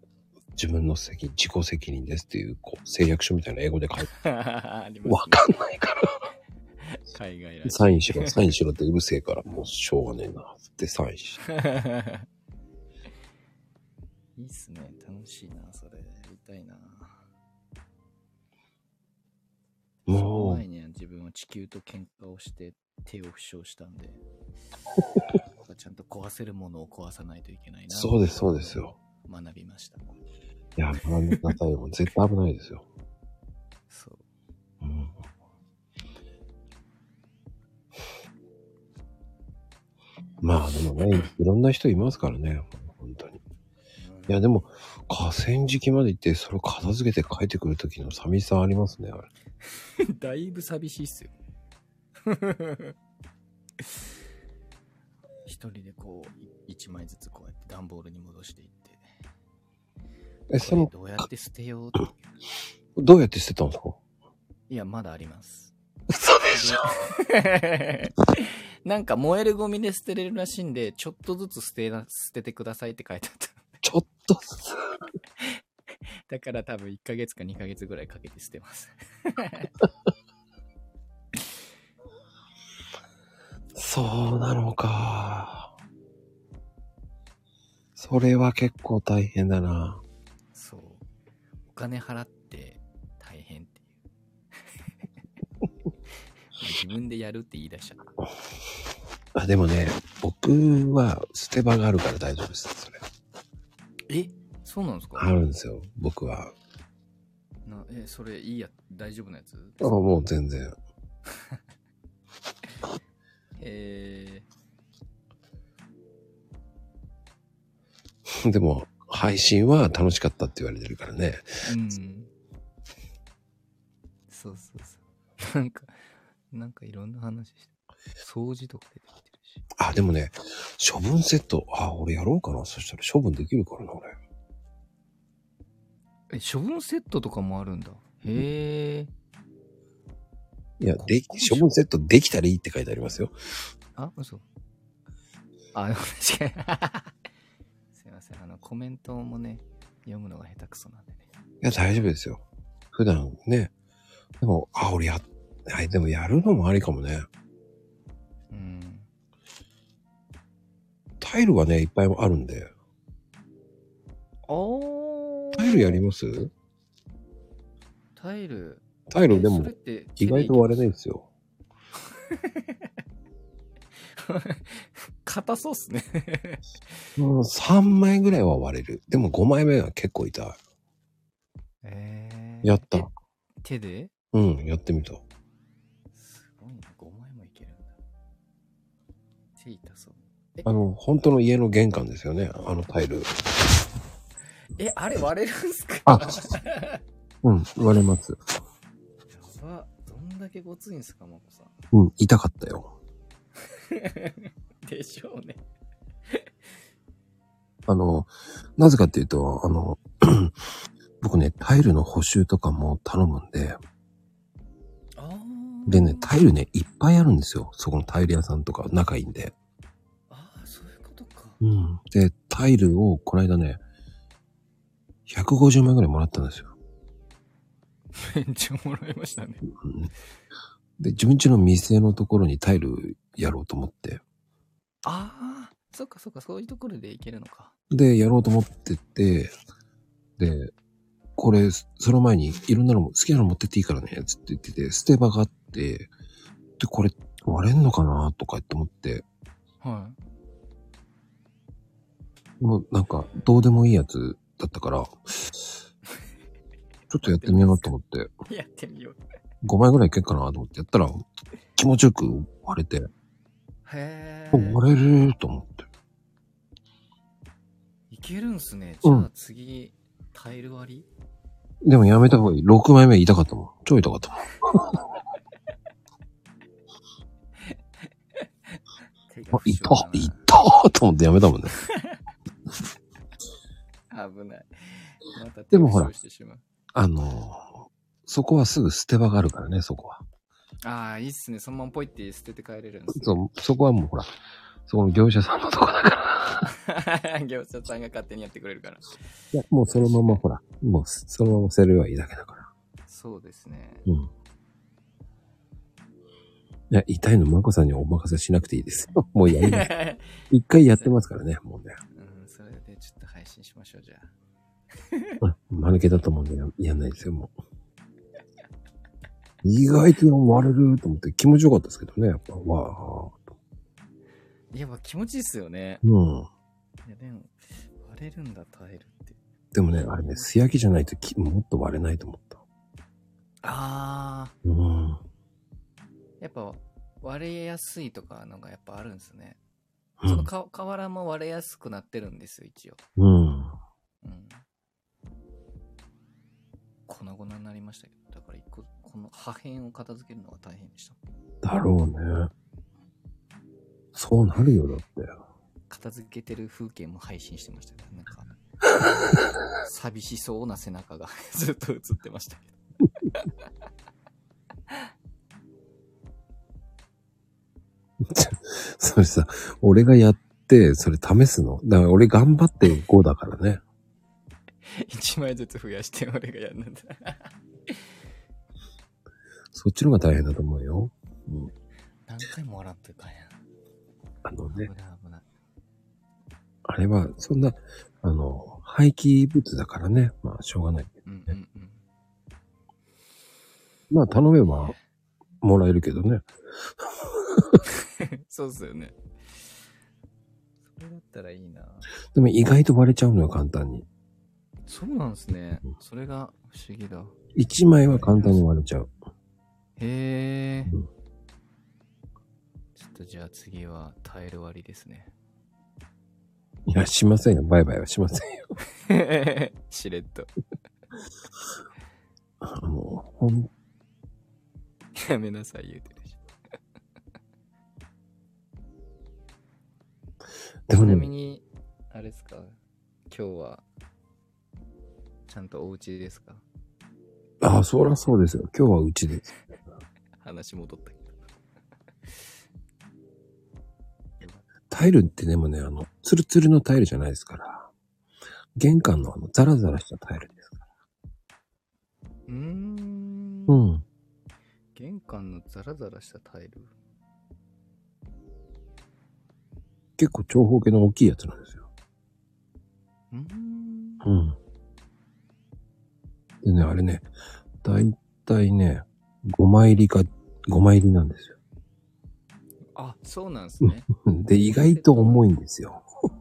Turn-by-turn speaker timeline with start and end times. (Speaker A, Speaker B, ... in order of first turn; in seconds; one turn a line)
Speaker A: 0.6-4.1
Speaker B: 4.1-5.5
Speaker A: 5.0-6.2
Speaker B: 6.9-8.4
Speaker A: 7.6-11.4
Speaker B: 11.5-12.2
Speaker B: 14.4-17.2
Speaker A: 20.1-20.6
Speaker B: 20.1-24.2
Speaker B: 25.6-30.2
Speaker A: 27.9-28.9
Speaker A: 30.8-32.8
Speaker B: 33.9-34.2
Speaker A: 34.8-35.1
Speaker A: 40.4-43.4
Speaker B: 44.0-44.6
Speaker A: 44.3-49.3
Speaker B: 50.1-51.3
Speaker B: 52.2-52.9
Speaker B: 55.5-59.0
Speaker A: 60.5-60.9
Speaker B: 60.6-62.3
Speaker A: 63.0-64.0
Speaker B: 64.7-65.7
Speaker A: 66.1-66.9
Speaker B: 66.5-73.8
Speaker A: 73.8-74.8
Speaker B: 76.3-79.7
Speaker A: 83.8-85.7
Speaker A: 88.0-90.0
Speaker B: 90.5-91.0
Speaker B: 91.7-93.9
Speaker B: 96.5-98.1
Speaker A: 99.3-103.0
Speaker B: 104.1-105.3
Speaker A: 105.2-106.5
Speaker B: 107.6-109.9
Speaker A: 109.8-110.8
Speaker B: 113.6-114.5
Speaker A: 118.3-121.5
Speaker B: 121.6-122.3
Speaker B: 124.3-129.6
Speaker A: 129.8-134.2
Speaker B: 136.3-139.1
Speaker A: 140.8-143.3
Speaker B: 141.0-141.7
Speaker B: 143.9-144.4
Speaker B: 145.7-147.1
Speaker B: 147.9-151.2
Speaker A: 151.6-152.4
Speaker A: 152.9-153.7
Speaker A: 154.4-157.3
Speaker B: 158.5-159.1
Speaker A: 161.2-162.7
Speaker B: 164.5-166.0
Speaker A: 165.6-166.5
Speaker B: 168.2-170.6
Speaker A: 169.1-171.3
Speaker B: 172.3-172.8
Speaker B: 174.2-177.1
Speaker A: 177.2-180.6
Speaker B: 181.8-183.1
Speaker A: 182.6-183.1
Speaker B: 183.6-184.1
Speaker A: 184.3-185.2
Speaker B: 186.1-187.9
Speaker B: 189.6-190.7
Speaker A: 190.6-193.3
Speaker B: 194.8-197.0
Speaker A: 196.1-196.5
Speaker A: 197.4-198.4
Speaker B: 199.3-201.7
Speaker A: 201.9-202.9
Speaker B: 203.8-205.6
Speaker A: 207.9-210.6
Speaker A: 211.2-213.8
Speaker B: 215.2-216.3
Speaker A: 215.9-219.5
Speaker B: 220.3-221.6
Speaker A: 221.6-223.8
Speaker A: 225.3-226.7
Speaker B: 228.2-229.6
Speaker A: 229.8-230.1
Speaker A: 231.0-234.2
Speaker B: 235.0-237.7
Speaker A: 237.9-239.5
Speaker A: 240.4-240.7
Speaker A: 241.4-246.1
Speaker A: 246.8-249.2
Speaker B: 249.8-250.2
Speaker A: 252.6-255.7
Speaker A: 257.1-258.3
Speaker B: 257.2-257.9
Speaker B: 258.4-259.2
Speaker A: 259.6-261.2
Speaker A: 261.8-263.1
Speaker B: 263.8-264.8
Speaker A: 264.5-265.9
Speaker B: 268.1-271.1
Speaker A: 271.8-275.0
Speaker B: 279.3-280.4
Speaker A: 279.5-281.7
Speaker B: 281.9-282.2
Speaker B: 284.1-286.6
Speaker A: 285.7-286.1
Speaker A: 286.9-290.2
Speaker B: 290.8-293.4
Speaker A: 293.1-294.3
Speaker A: 294.9-296.7
Speaker B: 296.7-299.2
Speaker A: 299.5-302.7
Speaker B: 299.9-300.4
Speaker B: 303.1-304.1
Speaker A: 306.9-309.9
Speaker B: 309.5-310.4
Speaker A: 310.5-312.0
Speaker B: 312.1-314.3
Speaker B: 315.1-315.4
Speaker A: 315.4-317.5
Speaker A: 319.6-323.4
Speaker B: 324.7-326.0
Speaker A: 326.0-326.5
Speaker B: 327.1-329.4
Speaker A: 329.7-332.6
Speaker B: 330.2-330.4
Speaker B: 333.6-334.6
Speaker A: 334.6-335.2
Speaker B: 336.4-339.6
Speaker A: 340.2-340.5
Speaker B: 340.2-343.0
Speaker A: 343.2-343.7
Speaker B: 344.2-344.6
Speaker B: 347.1-351.2
Speaker A: 351.6-352.5
Speaker A: 354.1-355.4
Speaker B: 355.9-358.5
Speaker B: 359.8-362.8
Speaker A: 368.2-373.8
Speaker B: 374.9-378.1
Speaker A: 379.7-381.7
Speaker B: 382.2-383.6
Speaker A: 384.4-384.9
Speaker B: 384.7-385.4
Speaker A: 386.8-391.2
Speaker B: 391.2-392.0
Speaker A: 394.1-394.9
Speaker B: 394.6-395.0
Speaker A: 395.6-396.5
Speaker A: 397.0-397.8
Speaker B: 398.2-399.1
Speaker B: 400.9-402.1
Speaker A: 402.3-404.1
Speaker B: 404.9-407.4
Speaker A: 407.6-409.1
Speaker B: 408.1-408.6
Speaker B: 410.0-410.9
Speaker B: 412.9-415.3
Speaker A: 416.9-418.7
Speaker B: 419.1-420.5
Speaker A: 422.6-423.7
Speaker B: 425.2-426.4
Speaker A: 430.9-431.3
Speaker B: 430.9-432.8
Speaker B: 433.3-433.8
Speaker B: 435.5-436.6
Speaker A: 437.6-439.5
Speaker B: 440.4-441.4
Speaker B: 444.4-444.7
Speaker A: 444.9-447.9
Speaker A: 448.8-450.7
Speaker B: 452.5-453.8
Speaker A: 453.7-454.0
Speaker B: 454.9-456.9
Speaker A: 460.2-461.9
Speaker B: 463.3-464.2
Speaker A: 464.2-464.6
Speaker A: 466.6-467.3
Speaker A: 467.8-471.6
Speaker B: 472.9-474.1
Speaker A: 473.8-476.0
Speaker B: 474.6-475.4